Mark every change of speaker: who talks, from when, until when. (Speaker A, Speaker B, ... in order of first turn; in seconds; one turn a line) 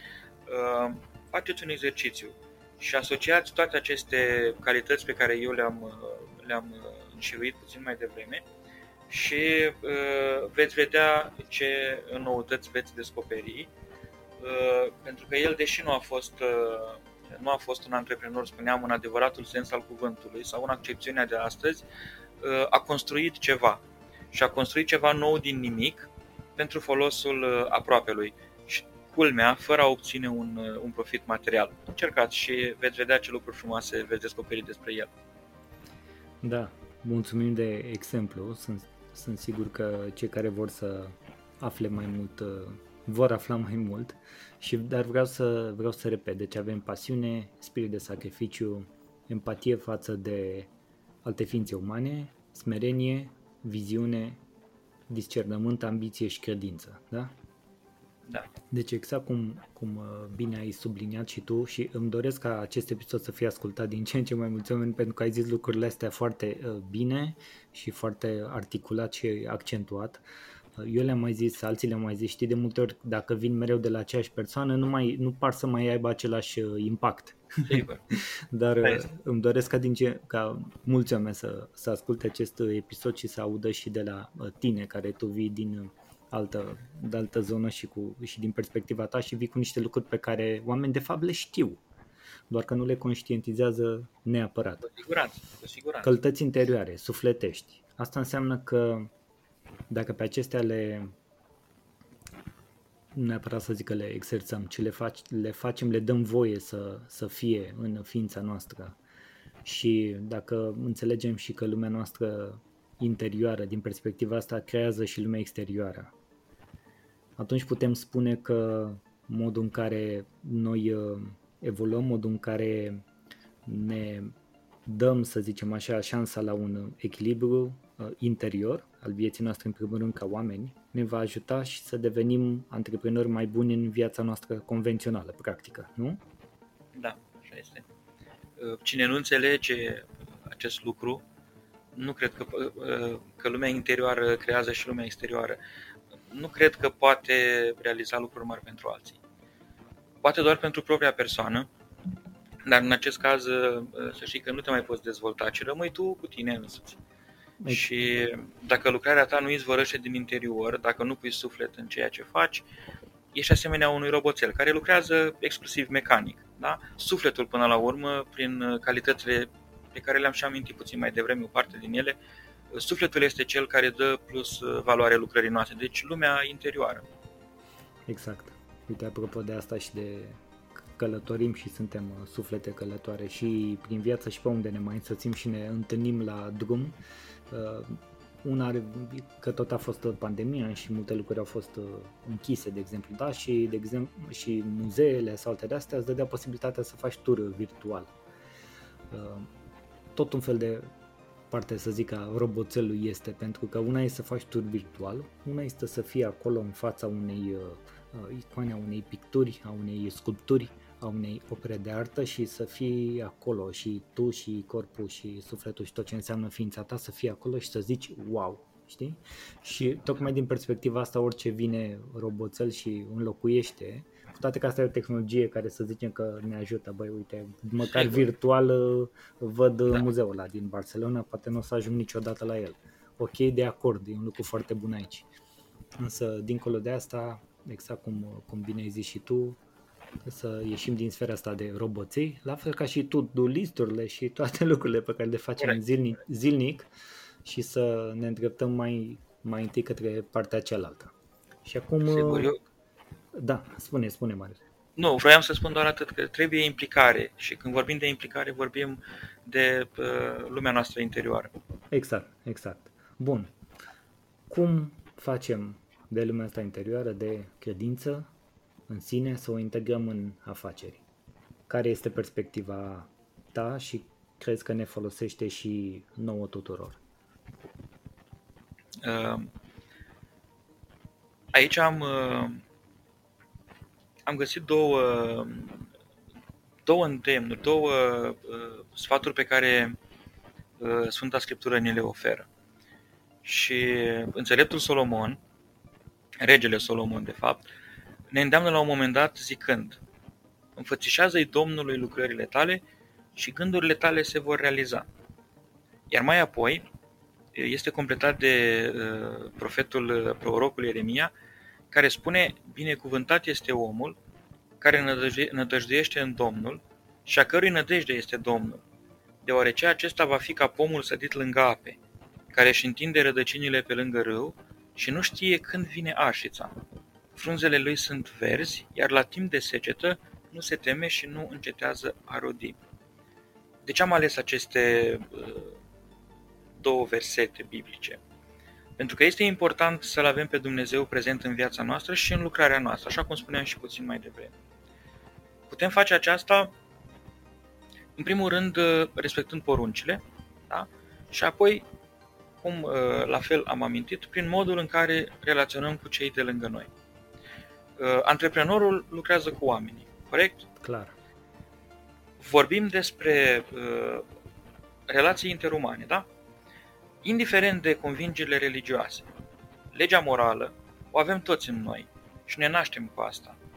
Speaker A: 0.5-8.4
Speaker A: 9.1-13.7
Speaker A: 14.4-21.8
Speaker A: 22.4-23.8
Speaker A: 24.3-35.1
Speaker B: 36.4-50.7
Speaker B: 51.2-54.4
Speaker B: 55.1-57.3
Speaker B: 58.7-70.2
Speaker B: 70.8-91.8
Speaker A: 77.6-78.0
Speaker B: 92.5-94.9
Speaker A: 94.8-96.2
Speaker B: 96.0-99.1
Speaker B: 99.9-101.1
Speaker B: 103.1-109.0
Speaker B: 109.6-116.1
Speaker B: 117.4-123.0
Speaker B: 123.7-124.3
Speaker B: 124.8-136.2
Speaker A: 136.9-137.8
Speaker A: 138.6-141.2
Speaker A: 141.9-145.6
Speaker A: 146.3-149.2
Speaker A: 150.2-151.7
Speaker A: 152.7-157.0
Speaker B: 157.6-157.9
Speaker A: 157.7-162.6
Speaker A: 163.3-172.2
Speaker A: 172.7-177.0
Speaker B: 178.1-187.0
Speaker B: 187.5-198.1
Speaker B: 199.1-199.5
Speaker B: 200.1-200.9
Speaker B: 201.5-235.3
Speaker A: 227.8-228.3
Speaker B: 236.0-239.6
Speaker B: 240.2-246.9
Speaker B: 247.4-251.1
Speaker B: 251.6-252.5
Speaker A: 252.0-252.6
Speaker B: 253.3-254.6
Speaker A: 255.0-261.5
Speaker B: 261.9-263.5
Speaker B: 264.5-268.3
Speaker B: 268.9-271.0
Speaker B: 271.7-277.0
Speaker A: 279.0-279.5
Speaker A: 281.5-282.6
Speaker A: 284.2-285.9
Speaker A: 286.8-289.9
Speaker A: 290.8-292.5
Speaker A: 293.4-295.4
Speaker A: 296.4-297.7
Speaker A: 298.3-300.0
Speaker A: 300.8-302.8
Speaker A: 303.4-305.1
Speaker A: 306.1-306.8
Speaker A: 307.5-311.3
Speaker A: 311.9-314.1
Speaker A: 314.8-318.8
Speaker A: 319.4-322.0
Speaker A: 322.5-326.7
Speaker A: 327.3-332.8
Speaker A: 333.9-335.8
Speaker A: 336.8-338.2
Speaker A: 339.0-344.5
Speaker A: 345.7-346.7
Speaker A: 348.2-351.8
Speaker A: 352.6-356.9
Speaker A: 358.0-360.7
Speaker B: 360.8-361.1
Speaker A: 362.4-364.2
Speaker A: 365.1-366.2
Speaker A: 367.2-369.2
Speaker A: 369.9-373.6